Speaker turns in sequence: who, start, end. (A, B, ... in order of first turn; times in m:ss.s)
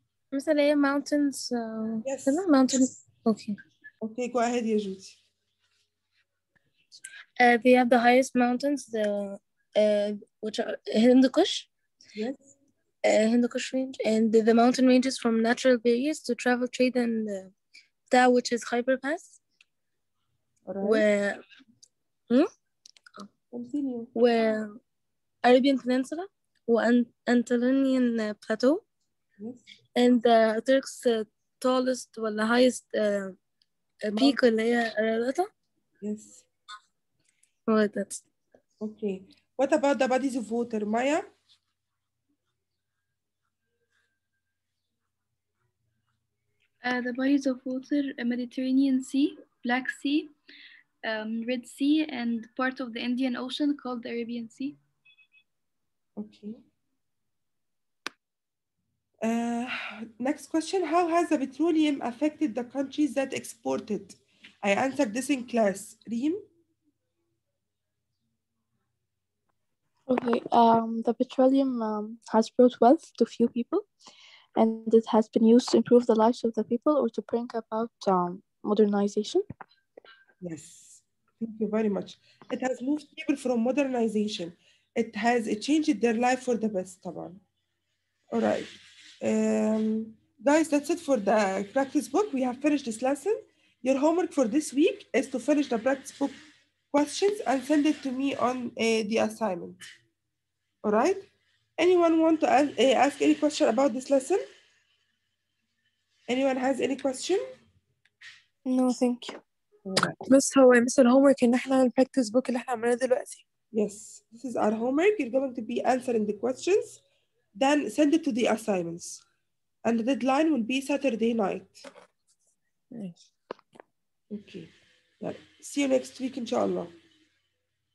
0:00.3-0:03.6 A
0:02.0-0:02.4 B
0:04.0-0:05.2 B
0:07.4-0:11.7 A
0:12.1-0:12.5 B
0:13.0-0:17.5 A
0:18.1-0:19.4 A
0:20.6-0:21.0 B
0:20.8-0:21.4 A
0:23.5-0:24.1 B
0:24.2-0:24.8 A
0:25.4-0:28.8 A
0:29.4-0:29.6 B
0:30.0-0:33.4 A
0:34.0-0:35.5 A
0:36.0-0:36.4 B
0:37.7-0:38.2 A
0:38.8-0:41.3 B
0:46.8-0:50.3 C
0:51.0-0:54.8 C
0:56.2-0:56.6 B
0:59.2-1:06.4 B
1:10.1-1:13.8 D
1:14.6-1:19.4 D
1:20.4-1:27.4 B
1:28.3-1:28.7 B
1:29.2-1:36.4 B
1:36.9-1:39.8 B
1:40.8-1:41.3 B
1:41.8-1:44.4 B
1:46.3-1:47.4 B
1:48.7-1:49.2 E
1:48.9-1:49.3 D
1:49.8-1:50.2 B
1:50.4-1:53.4 E
1:53.7-1:57.0 B
1:57.6-1:59.2 B
1:59.8-2:01.8 B
2:04.3-2:06.9 B